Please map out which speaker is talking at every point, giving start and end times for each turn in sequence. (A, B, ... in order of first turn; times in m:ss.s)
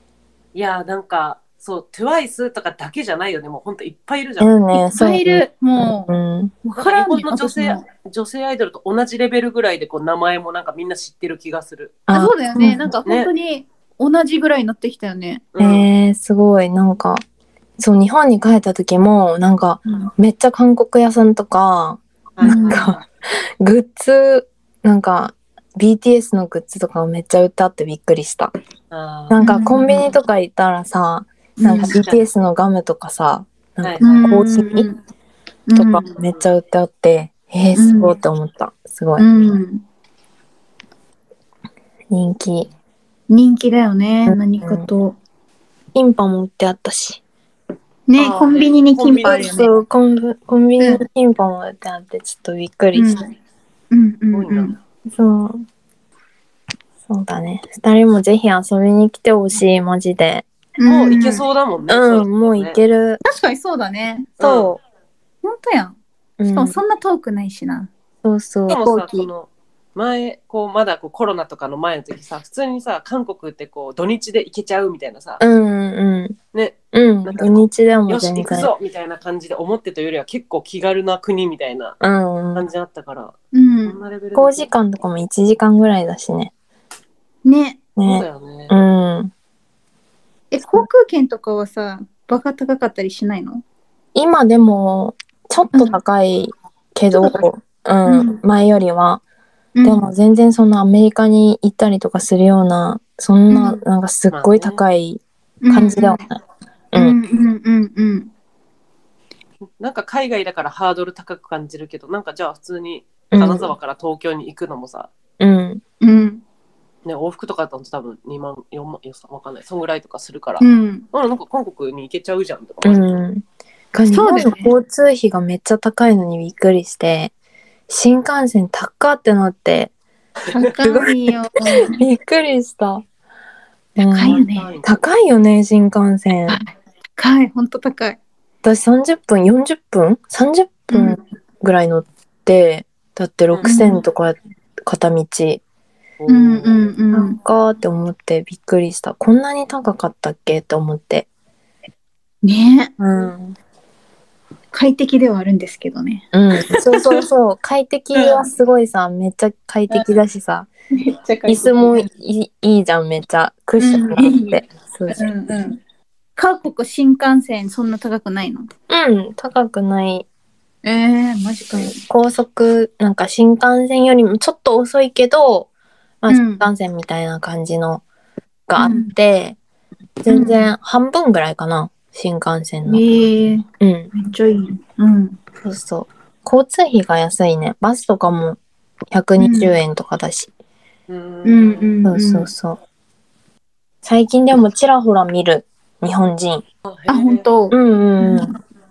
0:00.5-0:04.5 A
0:04.4-0:05.4 B
0:04.7-0:06.1 C
0:06.1-0:06.5 B
0:06.6-0:07.8 C
0:06.8-0:12.0 A
0:12.1-0:12.9 B
0:12.1-0:15.4 C
0:13.0-0:13.3 A
0:15.6-0:15.9 A
0:15.6-0:17.2 B
0:17.8-0:23.0 B
0:22.4-0:23.0 A
0:22.4-0:22.9 C
0:23.6-0:28.5 B
0:28.9-0:29.4 A
0:29.3-0:34.9 B
0:29.4-0:30.1 C
0:31.6-0:32.0 C
0:31.9-0:32.2 A
0:33.8-0:34.1 A
0:34.0-0:35.0 C
0:35.7-0:36.0 C
0:35.8-0:39.3 B
0:36.1-0:36.4 A
0:37.7-0:38.2 C
0:39.2-0:39.8 C
0:42.1-0:42.7 B
0:43.3-0:45.2 C
0:44.3-0:44.9 B
0:46.0-0:47.2 B
0:48.1-0:49.7 C
0:48.2-0:49.6 A
0:49.2-0:53.2 B
0:50.8-0:51.0 C
0:52.9-0:53.3 C
0:53.9-0:54.8 C
0:54.3-0:54.8 A
0:55.1-0:55.6 B
0:57.1-1:00.4 B
1:00.8-1:01.4 C
1:00.9-1:02.8 A
1:01.9-1:03.2 B
1:03.2-1:04.4 C
1:04.4-1:04.7 A
1:04.4-1:04.8 B
1:05.4-1:06.0 C
1:06.4-1:06.8 B
1:06.5-1:07.9 C
1:08.2-1:09.3 B
1:08.7-1:15.4 A
1:15.4-1:16.4 B
1:16.5-1:17.5 A
1:16.9-1:18.7 B
1:18.1-1:22.0 A
1:22.0-1:22.7 B
1:22.6-1:24.7 A
1:23.5-1:24.0 C
1:24.4-1:26.5 B
1:27.4-1:27.8 C
1:28.0-1:29.3 B
1:28.0-1:28.7 A
1:30.5-1:33.6 C
1:34.2-1:39.2 B
1:38.1-1:38.4 C
1:39.8-1:40.0 C
1:39.8-1:46.4 B
1:43.5-1:43.8 C
1:44.3-1:44.8 A
1:45.6-1:46.2 C
1:47.0-1:48.3 C
1:49.8-1:55.1 A
1:53.3-1:53.7 B
1:55.4-1:55.8 B
1:56.0-1:56.4 C
1:57.0-2:03.0 A
2:00.6-2:01.1 C
2:02.8-2:07.3 B
2:04.1-2:04.7 C
2:07.9-2:09.9 B
2:10.5-2:12.0 C
2:10.8-2:11.2 B
2:11.8-2:13.0 B
2:14.0-2:16.6 B
2:14.0-2:14.7 C
2:14.2-2:15.0 A
2:16.5-2:18.2 C
2:18.6-2:25.6 B
2:20.9-2:21.2 C
2:23.6-2:24.0 C
2:26.2-2:27.0 A
2:26.3-2:27.4 C
2:27.1-2:31.3 B
2:32.4-2:32.9 C
2:33.0-2:33.6 B
2:34.7-2:36.3 C
2:36.3-2:40.7 B
2:41.0-2:42.1 C
2:41.5-2:45.3 B
2:43.8-2:45.8 C
2:46.4-2:48.7 C
2:48.9-2:50.3 B
2:50.8-2:52.0 C
2:51.7-2:55.7 B
2:56.2-2:58.0 B
2:56.3-2:56.7 C
2:58.7-2:59.6 B
2:58.8-2:59.1 C
3:00.2-3:03.0 B
3:00.3-3:00.7 C
3:02.9-3:05.4 C
3:03.8-3:04.1 B
3:05.6-3:08.6 B
3:09.1-3:10.5 B
3:09.4-3:09.8 C
3:11.1-3:12.0 A
3:11.4-3:12.5 C
3:12.0-3:12.8 B
3:14.0-3:16.6 B
3:16.8-3:17.5 A
3:17.1-3:18.6 C
3:17.7-3:18.5 B